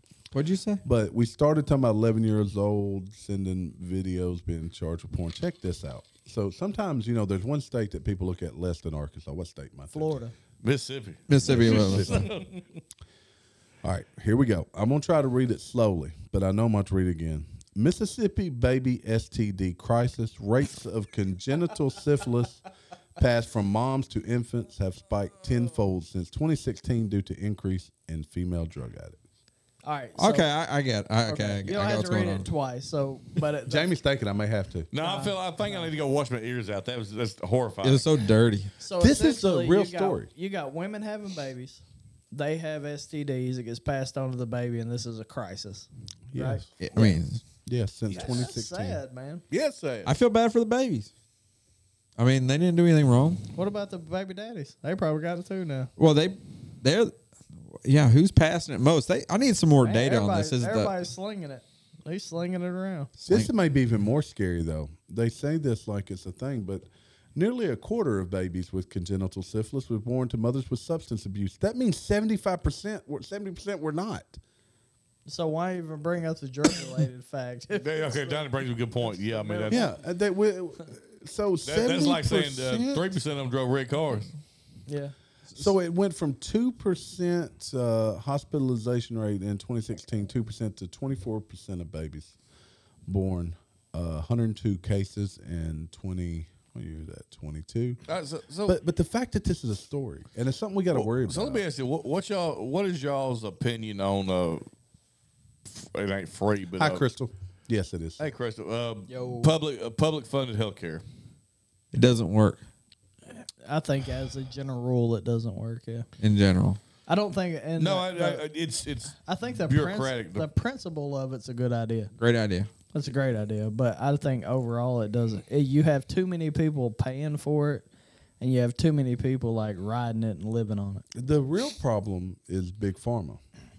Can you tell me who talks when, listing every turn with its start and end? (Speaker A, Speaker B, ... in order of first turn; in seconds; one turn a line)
Speaker A: 0.3-0.8
Speaker B: 0.8-10.2
Speaker C: 9.9-10.3
Speaker D: 10.6-12.5
Speaker A: 11.3-12.3
Speaker B: 11.4-12.4
Speaker B: 13.8-22.6
Speaker B: 23.2-29.2
Speaker C: 29.8-30.5
Speaker A: 30.2-32.5
Speaker C: 31.2-33.9
Speaker B: 33.7-34.9
Speaker D: 34.9-38.1
Speaker C: 35.0-35.9
Speaker A: 37.8-38.7
Speaker C: 38.8-46.6
Speaker B: 39.0-40.3
Speaker B: 46.3-49.0
Speaker A: 46.8-47.4
Speaker C: 48.1-49.4
Speaker D: 49.5-50.1
Speaker A: 50.0-51.1
Speaker A: 52.2-53.4
Speaker C: 53.5-55.9
Speaker A: 56.0-57.1
Speaker A: 57.8-61.0
Speaker C: 59.8-63.1
Speaker A: 63.2-63.5
Speaker B: 63.3-74.4
Speaker C: 75.2-79.9
Speaker D: 77.7-79.9
Speaker B: 79.7-83.2
Speaker D: 81.7-84.3
Speaker C: 84.9-85.1
Speaker B: 85.5-92.3
Speaker B: 93.0-98.0
Speaker D: 98.1-98.8
Speaker B: 98.7-101.6
Speaker D: 100.9-104.6
Speaker D: 105.7-107.0
Speaker B: 106.8-108.3
Speaker D: 108.2-111.0
Speaker C: 109.1-109.6
Speaker A: 111.9-112.6
Speaker C: 113.6-116.1
Speaker A: 116.2-116.8
Speaker C: 117.1-118.4
Speaker D: 117.8-120.5
Speaker C: 119.1-122.1
Speaker A: 122.2-122.7
Speaker C: 122.9-127.8
Speaker C: 128.4-131.0
Speaker B: 131.1-133.4